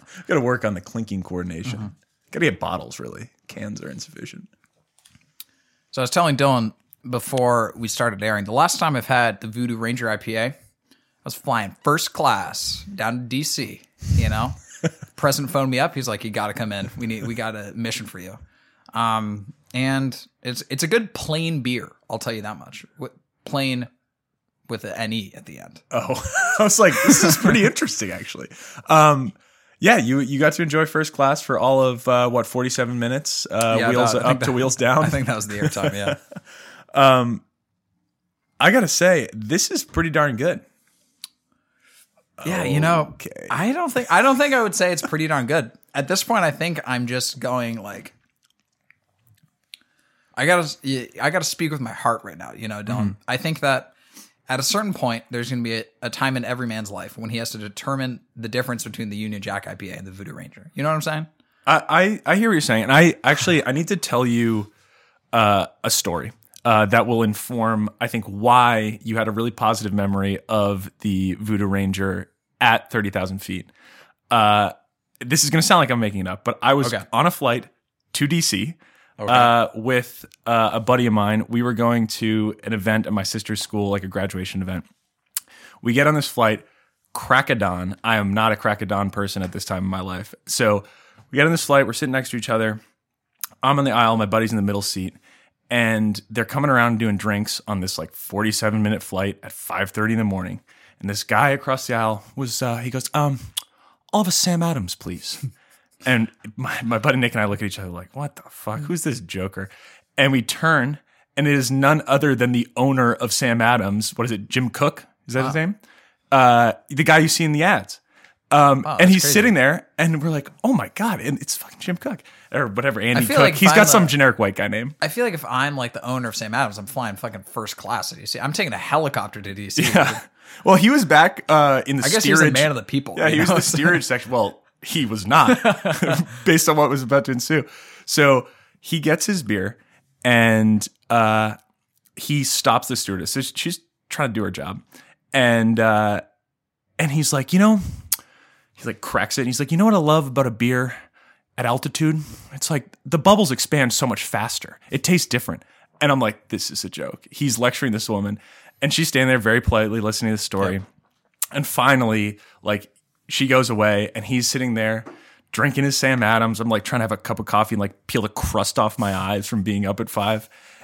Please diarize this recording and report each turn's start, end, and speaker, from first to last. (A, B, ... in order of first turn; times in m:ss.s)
0:00.2-0:04.5 A
0:05.9-0:10.5 B
0:11.2-0:14.6 B
0:15.1-0:18.4 B
0:18.9-0:23.9 B
0:24.7-0:25.8 B
0:25.9-0:36.2 A
0:33.7-0:36.2 B
0:36.9-0:37.4 A
0:38.6-0:40.6 A
0:42.4-0:43.5 A
0:42.4-0:48.1 B
0:50.4-0:53.9 B
0:54.5-1:01.3 B
1:01.6-1:04.7 A
1:05.3-1:13.7 A
1:14.3-1:24.8 A
1:19.2-1:19.5 B
1:25.8-1:32.8 A
1:33.6-1:35.2 A
1:35.7-1:43.5 A
1:44.1-1:45.4 A
1:46.0-1:55.8 A
1:56.3-1:58.0 A
1:58.5-2:05.0 A
1:58.8-1:59.5 B
2:03.1-2:04.2 B
2:05.0-2:10.2 B
2:09.8-2:21.6 A
2:12.0-2:14.0 B
2:15.5-2:16.2 B
2:22.2-2:24.8 A
2:25.3-2:26.2 A
2:27.0-2:27.8 A
2:28.8-2:31.0 A
2:31.6-2:40.8 A
2:41.5-2:50.5 A